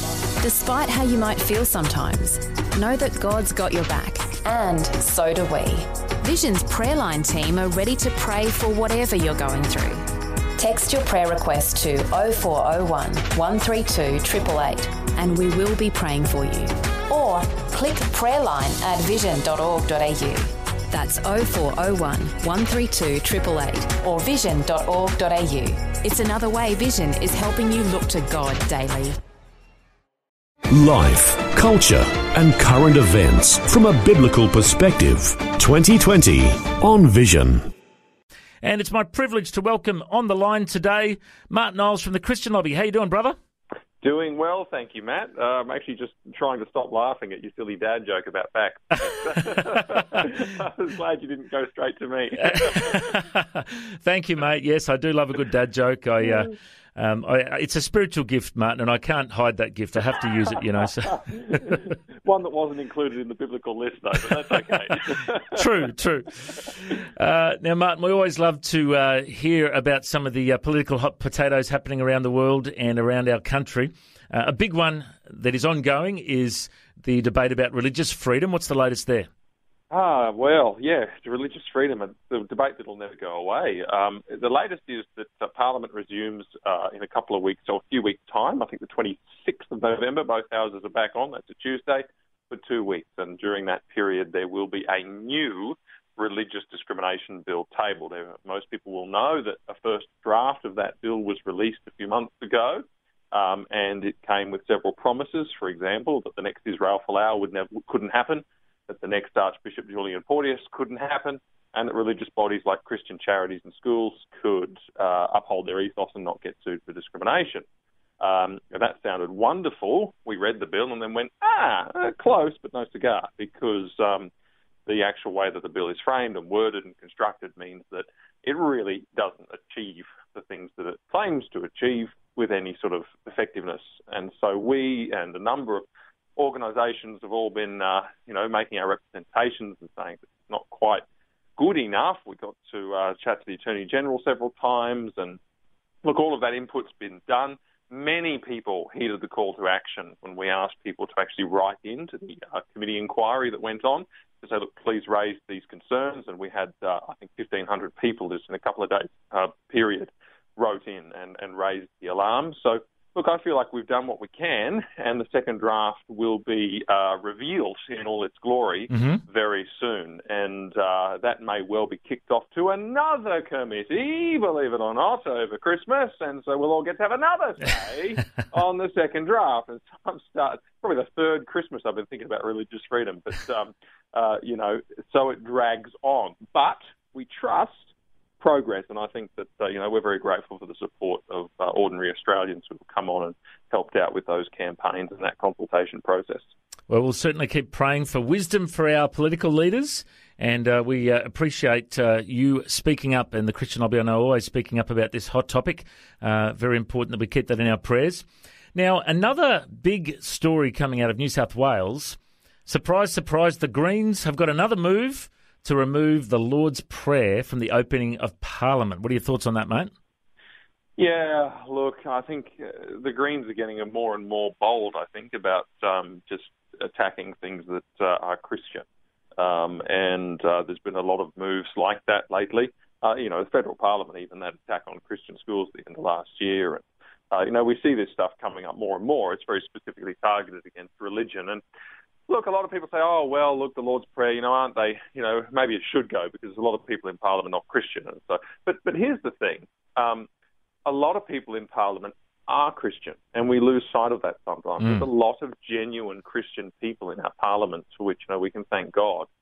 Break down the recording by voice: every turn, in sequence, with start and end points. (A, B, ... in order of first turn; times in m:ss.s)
0:00.4-0:10.0 A
0:10.6-0:29.1 A
0:30.7-0:37.7 B
0:38.6-0:43.4 C
0:44.0-0:53.2 D
0:52.4-1:01.6 C
1:01.0-1:05.6 D
1:05.5-1:19.3 C
1:19.9-1:57.6 D
1:58.2-2:04.3 D
2:04.8-2:21.0 D
2:21.6-2:25.4 D
2:26.0-3:16.5 D
2:48.9-2:49.2 C
3:16.9-3:39.9 C
3:41.0-3:48.8 D
3:49.4-4:01.6 D
4:02.3-4:10.3 D
4:10.8-4:19.3 D
4:14.8-4:15.1 C